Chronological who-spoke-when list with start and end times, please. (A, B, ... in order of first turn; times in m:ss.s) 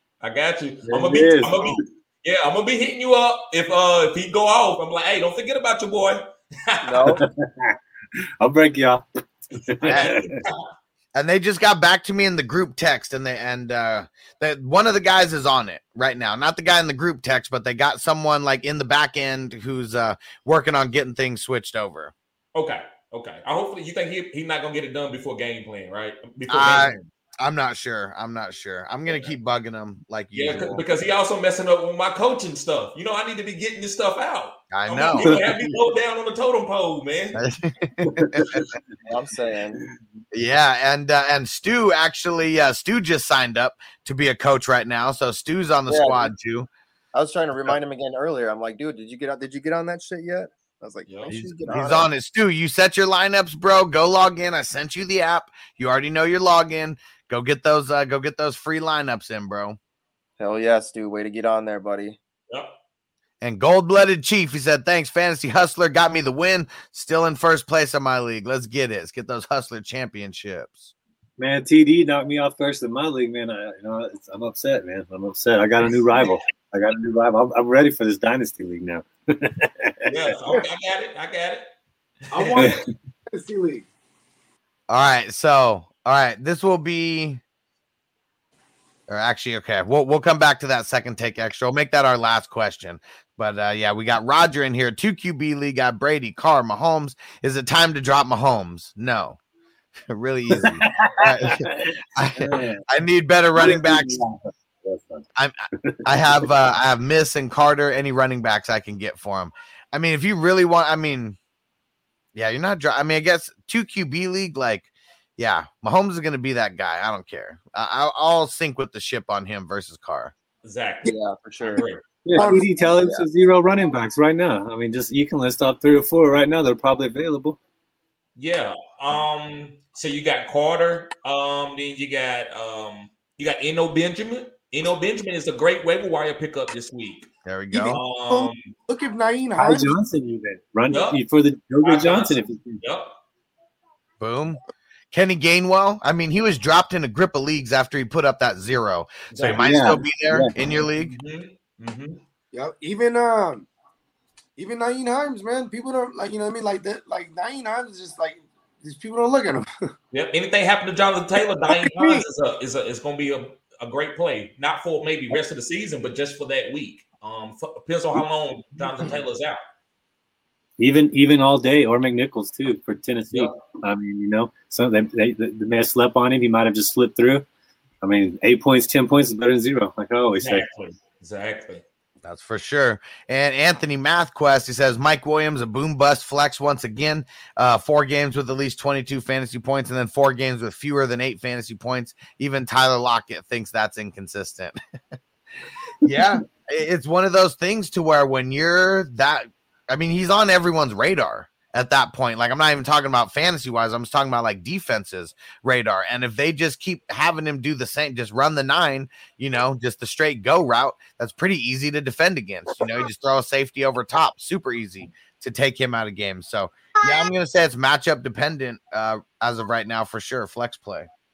0:00.2-0:07.2 A
0:00.8-0:01.8 B
0:06.8-0:07.2 C
0:07.0-0:07.8 B
0:08.4-0:10.4 B
0:09.8-0:10.2 D
0:11.1-0:22.1 D
0:22.5-0:27.1 A
0:26.5-0:30.8 D
0:29.1-0:29.3 A
0:30.3-0:37.4 A
0:34.7-0:35.4 D
0:35.2-0:35.7 B
0:37.3-0:38.6 D
0:38.0-0:38.8 B
0:39.1-0:39.8 C
0:40.3-0:46.7 D
0:45.9-0:46.3 C
0:47.1-0:52.1 C
0:51.1-0:51.4 A
0:51.3-0:59.8 D
1:00.4-1:02.2 C
1:02.5-1:02.7 A
1:03.4-1:10.9 D
1:11.4-1:20.4 B
1:20.1-1:21.6 A
1:22.3-1:22.7 E
1:22.4-1:22.6 A
1:22.5-1:22.8 B
1:23.3-1:23.8 E
1:24.9-1:27.4 D
1:29.1-1:39.4 D
1:40.1-1:44.2 D
1:40.5-1:42.8 B
1:43.6-1:45.2 B
1:45.4-1:51.4 D
1:45.8-1:46.4 B
1:52.3-2:00.3 D
2:00.6-2:02.0 A
2:01.0-2:01.8 C
2:02.2-2:07.6 B
2:02.4-2:02.6 E
2:02.9-2:03.2 C
2:08.4-2:17.3 A
2:17.4-2:18.0 D
2:17.7-2:20.0 E
2:17.9-2:18.7 A
2:19.6-2:22.8 B
2:20.9-2:21.2 A
2:21.8-2:23.2 A
2:24.2-2:24.6 D
2:25.1-2:31.1 D
2:29.5-2:30.5 B
2:31.0-2:32.2 A
2:32.5-2:33.7 E
2:34.6-2:39.6 E
2:40.1-2:49.6 A
2:41.7-2:42.2 E
2:50.8-2:57.4 B
2:53.3-2:53.6 A
2:58.0-3:00.6 B
3:00.4-3:01.8 A
3:02.2-3:14.8 D
3:16.0-3:41.1 D